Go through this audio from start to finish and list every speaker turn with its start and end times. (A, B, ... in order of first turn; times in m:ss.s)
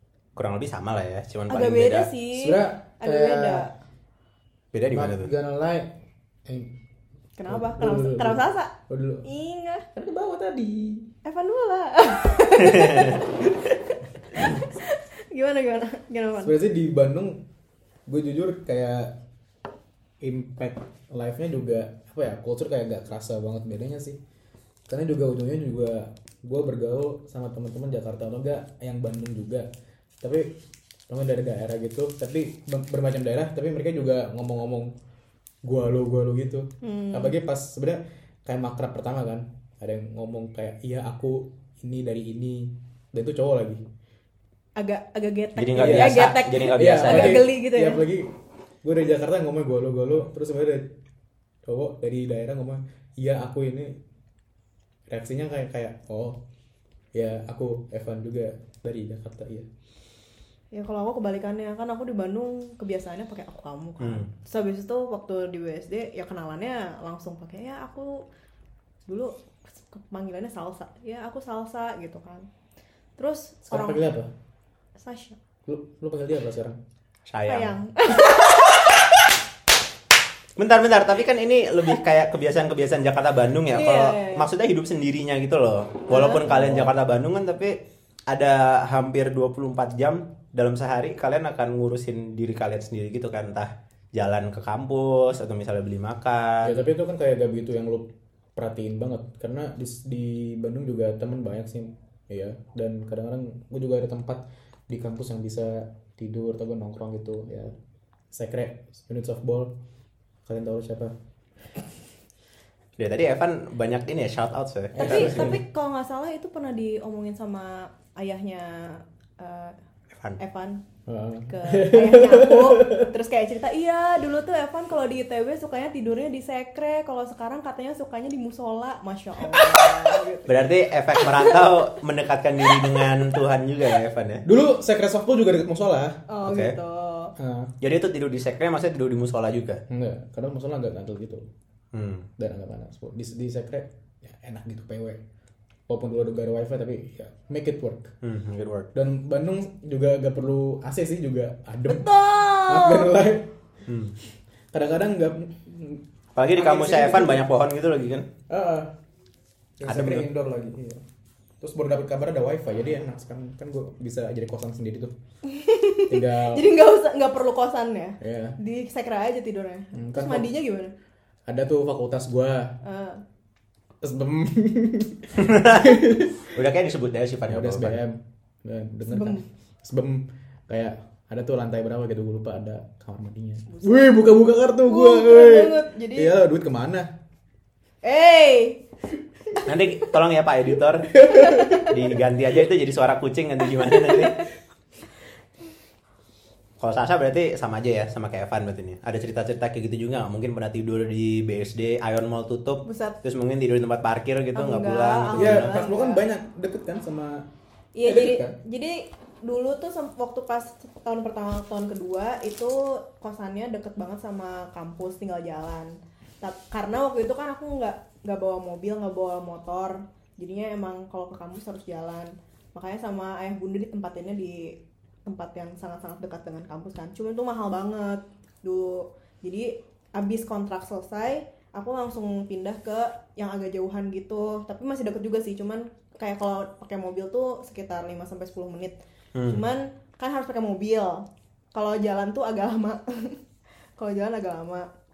0:00.4-0:02.1 A
0:01.5-0:03.7 B
0:02.3-0:03.7 C
0:04.7-0:05.3 A
0:04.9-0:05.9 C
0:06.5-0:06.7 C
0:07.4-0:09.8 B
0:07.5-0:09.3 C
0:09.9-0:11.1 C
0:11.2-0:16.5 B
0:16.4-0:17.4 C
0:18.1-0:19.2 C
0:20.2-0:24.2 C
0:24.9-0:29.7 C
0:30.2-0:30.5 C
0:31.1-0:34.9 C
0:35.6-0:43.8 C
0:36.8-0:37.3 B
0:44.8-0:48.1 B
0:45.6-0:47.5 A
0:45.8-0:50.9 C
0:51.6-0:54.0 C
0:55.1-0:56.4 C
0:57.1-0:59.7 C
1:00.7-1:08.2 B
1:04.0-1:04.3 A
1:09.0-1:12.5 B
1:13.2-1:14.0 B
1:13.6-1:14.3 C
1:15.0-1:15.4 B
1:15.7-1:16.8 C
1:17.3-1:17.8 A
1:17.5-1:19.1 B
1:20.6-1:36.8 A
1:23.7-1:24.5 B
1:26.1-1:26.5 B
1:26.4-1:26.9 C
1:36.6-1:47.7 C
1:48.3-1:49.7 C
1:50.4-1:51.1 C
1:53.0-1:55.6 A
1:54.9-1:55.6 C
1:55.0-1:59.8 B
2:00.1-2:00.4 A
2:00.4-2:00.8 B
2:01.0-2:03.1 C
2:01.5-2:10.6 B
2:10.5-2:14.4 A
2:11.3-2:11.6 B
2:14.4-2:16.2 C
2:16.3-2:17.3 B
2:16.4-2:16.8 A
2:17.4-2:17.7 C
2:17.8-2:19.8 A
2:19.9-2:21.4 C
2:21.9-2:22.3 A
2:22.4-2:25.2 C
2:25.9-2:28.1 C
2:28.2-2:28.9 A
2:28.9-2:33.5 C
2:31.9-2:33.2 B
2:33.9-2:34.1 A
2:34.7-2:37.5 C
2:36.3-2:38.3 A
2:38.5-2:38.9 C
2:39.8-2:41.0 C
2:39.9-2:40.3 A
2:41.6-2:45.1 C
2:45.4-2:50.9 B
2:46.1-2:46.7 C
2:48.2-2:48.6 C
2:49.9-2:50.5 C
2:51.4-2:52.8 C
2:52.8-2:53.2 B
2:54.0-2:56.5 C
2:55.4-2:58.0 A
2:57.5-3:07.1 C
2:59.1-2:59.4 B
3:03.7-3:04.1 B
3:04.8-3:06.3 B
3:08.0-3:08.8 B
3:09.6-3:11.2 A
3:11.1-3:12.2 C
3:11.4-3:11.7 B
3:11.8-3:14.4 A
3:14.2-3:14.4 B
3:16.8-3:25.8 A
3:22.8-3:23.2 B
3:24.5-3:26.2 B
3:25.3-3:27.4 C
3:27.9-4:03.4 B
3:28.0-3:28.6 C
3:59.3-3:59.6 A
4:04.0-4:04.9 B